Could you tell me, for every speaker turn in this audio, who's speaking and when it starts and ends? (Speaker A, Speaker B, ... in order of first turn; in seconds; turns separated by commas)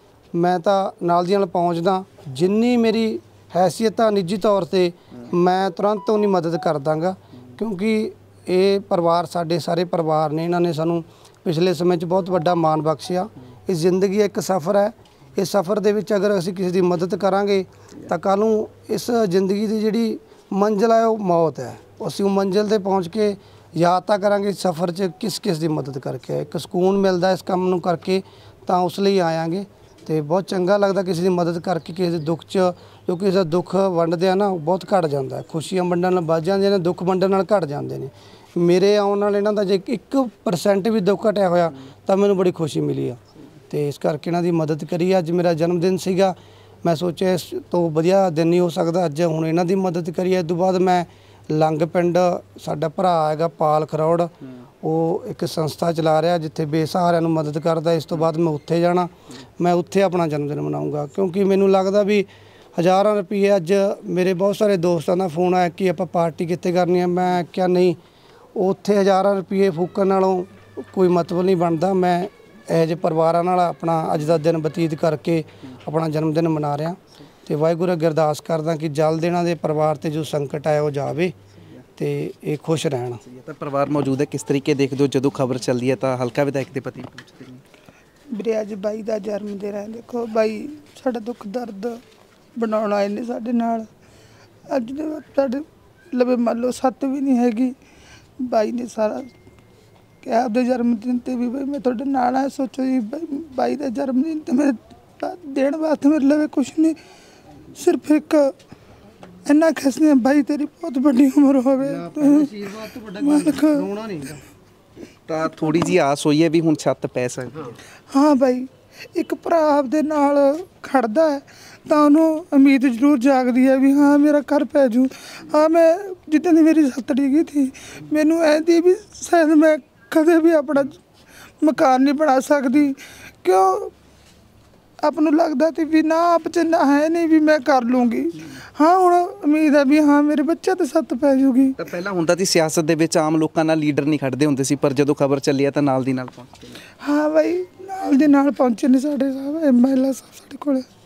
Speaker A: 0.3-43.2, Speaker A: 43.7-68.0, Speaker A: 68.6-81.3, Speaker A: 82.0-83.2, Speaker B: 83.3-87.6, Speaker C: 88.3-92.0, Speaker C: 92.6-93.9, Speaker C: 94.7-97.8, Speaker C: 98.4-99.3, Speaker C: 100.2-107.0, Speaker C: 107.7-108.5, Speaker C: 109.5-112.5, Speaker A: 111.8-114.4, Speaker C: 113.2-113.8, Speaker B: 115.3-117.8, Speaker C: 118.1-131.0, Speaker C: 131.6-133.9, Speaker C: 135.0-141.8, Speaker B: 141.8-146.8, Speaker C: 147.0-150.8